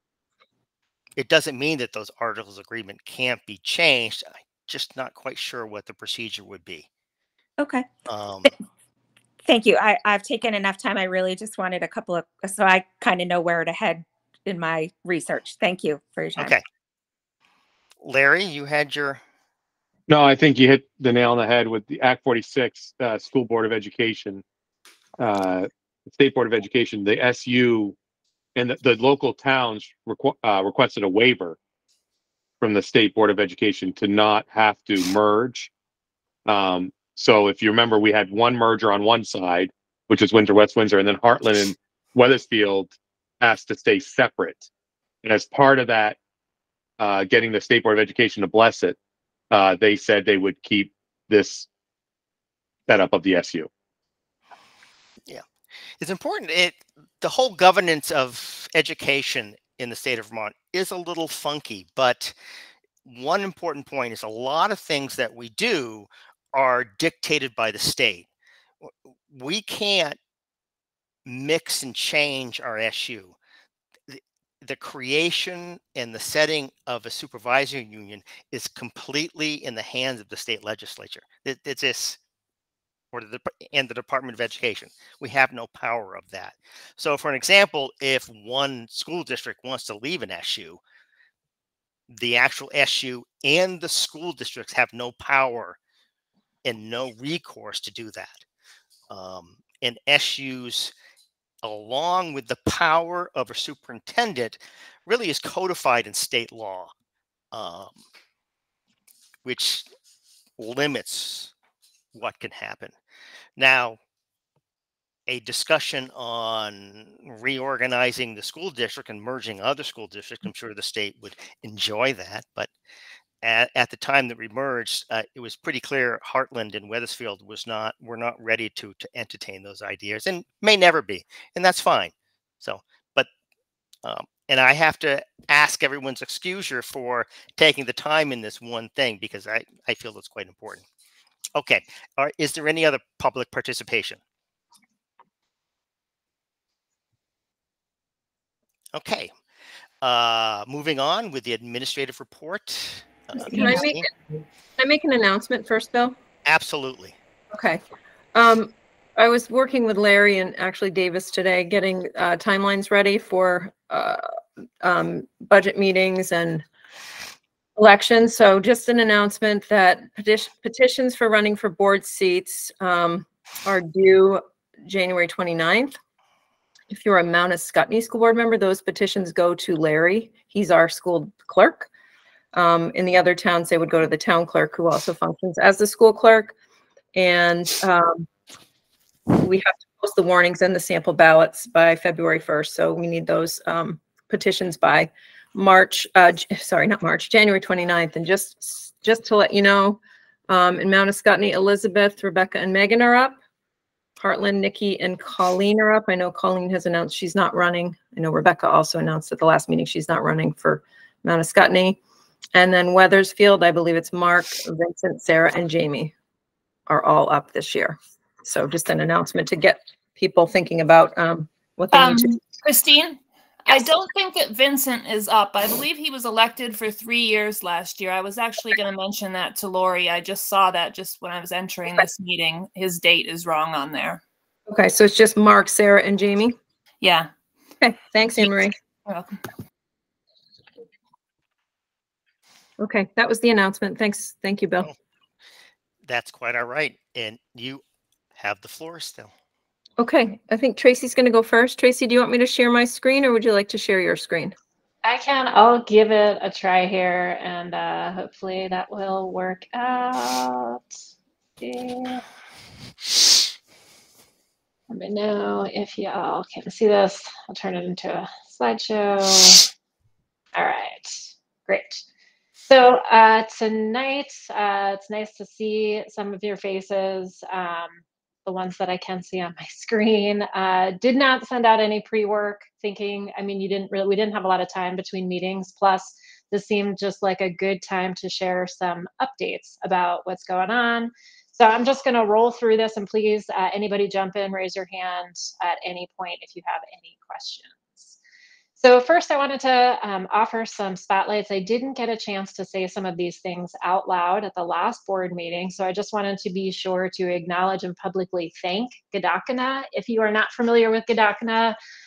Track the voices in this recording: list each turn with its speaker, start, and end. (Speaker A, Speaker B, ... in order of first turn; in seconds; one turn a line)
Speaker A: 1.2-6.9
Speaker B: 7.6-7.9
Speaker A: 8.1-8.5
Speaker B: 9.4-16.6
Speaker A: 16.4-16.6
Speaker A: 18.0-19.2
Speaker C: 20.1-24.4
Speaker C: 25.2-28.0
Speaker C: 28.6-31.6
Speaker C: 32.6-35.7
Speaker C: 36.5-44.7
Speaker C: 45.2-46.2
Speaker C: 47.0-49.0
Speaker C: 49.5-51.7
Speaker C: 52.9-53.7
Speaker A: 56.0-62.3
Speaker A: 63.0-68.3
Speaker A: 68.8-70.2
Speaker A: 71.3-73.3
Speaker A: 74.1-82.2
Speaker A: 83.1-90.8
Speaker A: 92.1-95.8
Speaker A: 96.7-98.4
Speaker A: 99.1-100.9
Speaker A: 101.6-106.9
Speaker A: 107.5-108.0
Speaker A: 109.5-109.9
Speaker A: 110.6-111.5
Speaker A: 112.1-113.0
Speaker A: 113.6-114.0
Speaker A: 115.3-122.7
Speaker A: 123.4-133.3
Speaker A: 134.0-140.8
Speaker A: 141.6-144.2
Speaker A: 148.9-149.3
Speaker A: 150.0-154.1
Speaker D: 153.4-154.1
Speaker D: 154.8-156.2
Speaker A: 156.5-157.2
Speaker D: 157.5-157.8
Speaker D: 158.3-164.2
Speaker D: 164.8-166.7
Speaker D: 167.8-176.0
Speaker D: 176.9-181.9
Speaker D: 182.5-186.5
Speaker D: 187.2-188.3
Speaker D: 189.4-203.4
Speaker D: 204.2-212.0
Speaker D: 212.5-216.1
Speaker D: 216.9-222.3
Speaker E: 221.9-234.2
Speaker D: 234.7-236.6
Speaker E: 237.0-237.3
Speaker D: 237.8-238.7
Speaker E: 239.1-239.3
Speaker D: 242.8-244.9
Speaker A: 246.0-247.8
Speaker A: 248.4-249.3
Speaker D: 250.0-254.6
Speaker F: 255.0-261.0
Speaker F: 261.6-262.2
Speaker F: 264.9-269.7
Speaker F: 270.5-272.0
Speaker F: 272.6-298.2
Speaker F: 298.8-311.8